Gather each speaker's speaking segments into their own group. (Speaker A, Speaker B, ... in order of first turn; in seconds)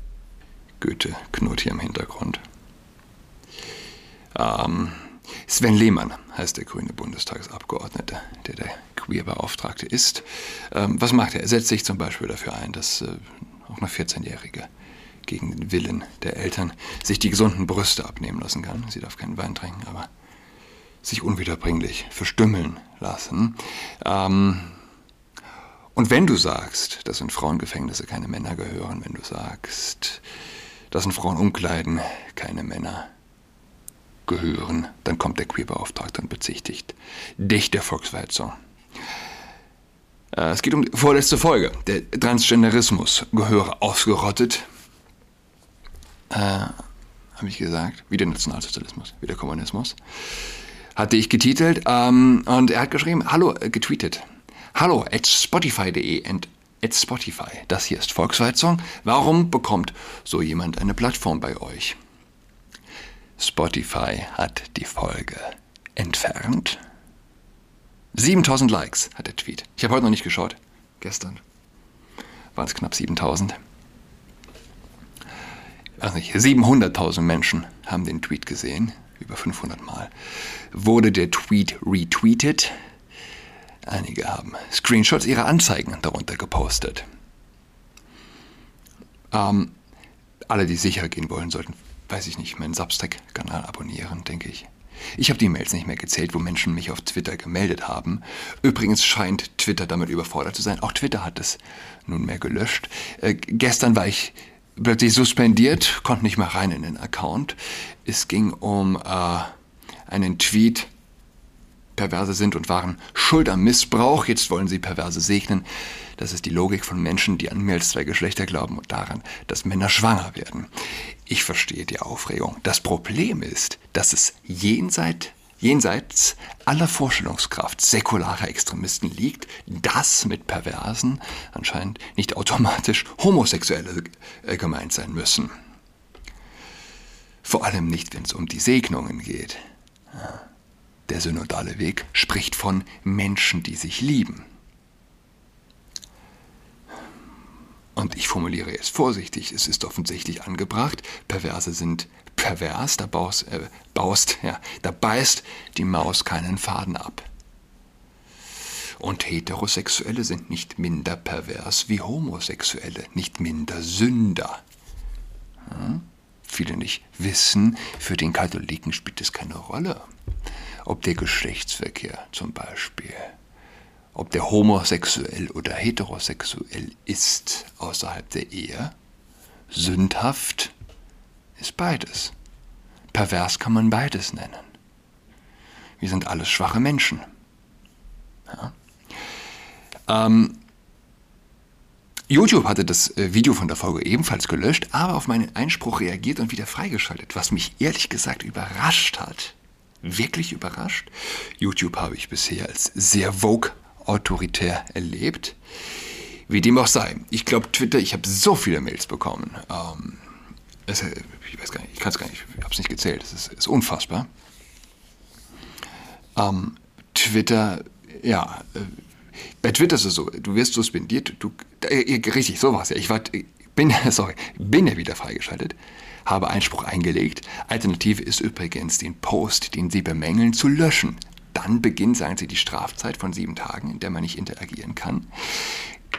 Speaker A: 0.8-2.4, 4.3-14.7, 15.2-20.1, 21.0-24.8, 25.9-30.2, 30.9-33.1, 34.3-38.5, 40.3-44.7, 46.3-46.8, 47.4-50.0, 51.0-54.2, 54.7-62.0, 63.4-66.8, 68.1-71.4, 72.5-73.6, 76.0-80.1, 80.7-82.7, 83.8-87.0, 89.3-89.8, 90.5-109.5, 110.1-110.9, 112.0-115.7, 116.2-120.7, 121.3-135.5, 137.4-139.6, 140.1-140.4, 141.1-144.4, 148.0-157.3, 159.0-164.6, 165.7-170.1, 170.8-173.3, 174.2-178.9, 179.7-180.7, 181.6-182.3, 183.1-184.7, 186.0-187.2, 188.5-188.7, 190.1-190.6, 192.3-205.6, 206.4-210.3, 210.9-214.3, 216.4-219.0, 219.6-235.8